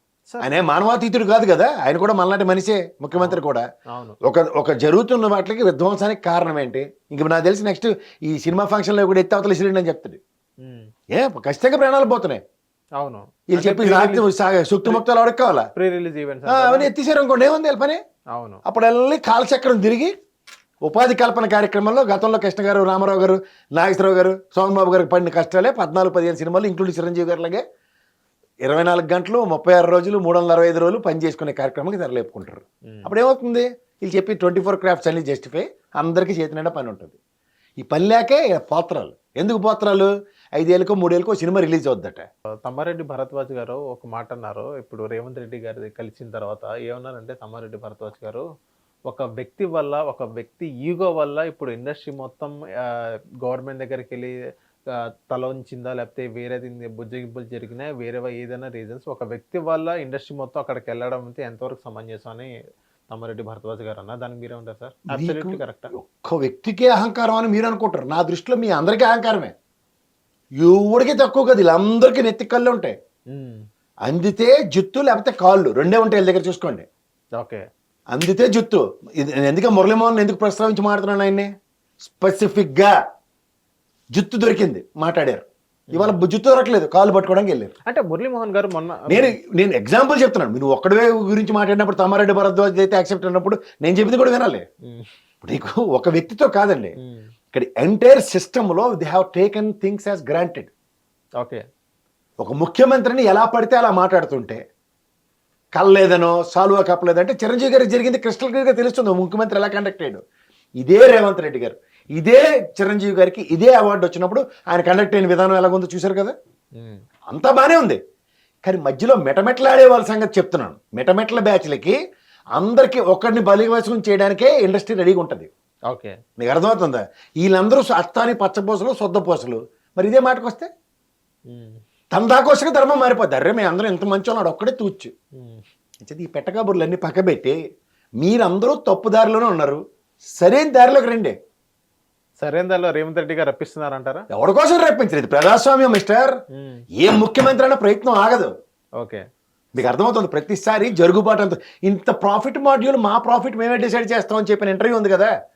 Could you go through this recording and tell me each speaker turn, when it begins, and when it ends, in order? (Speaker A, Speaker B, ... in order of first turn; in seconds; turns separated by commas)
Speaker A: 0.4-3.6, Speaker B: 3.1-3.4, Speaker B: 3.9-4.2, Speaker A: 4.2-10.2, Speaker B: 10.6-10.9, Speaker A: 11.1-12.4, Speaker B: 13.0-14.3, Speaker A: 13.5-15.7, Speaker B: 15.7-16.9, Speaker A: 16.5-18.0, Speaker B: 18.3-18.6, Speaker A: 18.6-20.1, Speaker A: 20.8-27.6, Speaker A: 28.6-37.2, Speaker A: 37.8-42.3, Speaker B: 42.6-48.4, Speaker B: 49.1-54.3, Speaker B: 54.9-62.5, Speaker B: 63.1-65.9, Speaker A: 65.1-69.5, Speaker A: 70.6-72.9, Speaker B: 73.3-73.6, Speaker A: 74.0-76.8, Speaker B: 77.4-77.6, Speaker A: 78.1-81.5, Speaker A: 82.0-82.9, Speaker A: 84.1-87.7, Speaker B: 85.9-86.2, Speaker B: 87.9-89.3, Speaker A: 89.1-94.7, Speaker A: 95.4-97.0, Speaker B: 97.0-97.3, Speaker A: 97.5-100.7, Speaker A: 102.4-104.6, Speaker A: 105.8-110.2, Speaker A: 110.8-116.3, Speaker B: 116.8-117.0, Speaker A: 117.3-118.0, Speaker A: 118.6-122.0, Speaker A: 122.5-125.5, Speaker B: 125.9-126.2, Speaker A: 126.4-130.7, Speaker B: 131.5-131.8, Speaker A: 132.1-135.1, Speaker B: 135.4-135.6, Speaker A: 136.0-137.6, Speaker A: 138.2-139.8, Speaker A: 140.4-141.3, Speaker B: 142.4-144.2, Speaker A: 144.3-146.3, Speaker B: 146.5-146.8, Speaker A: 147.0-148.5, Speaker A: 149.8-155.3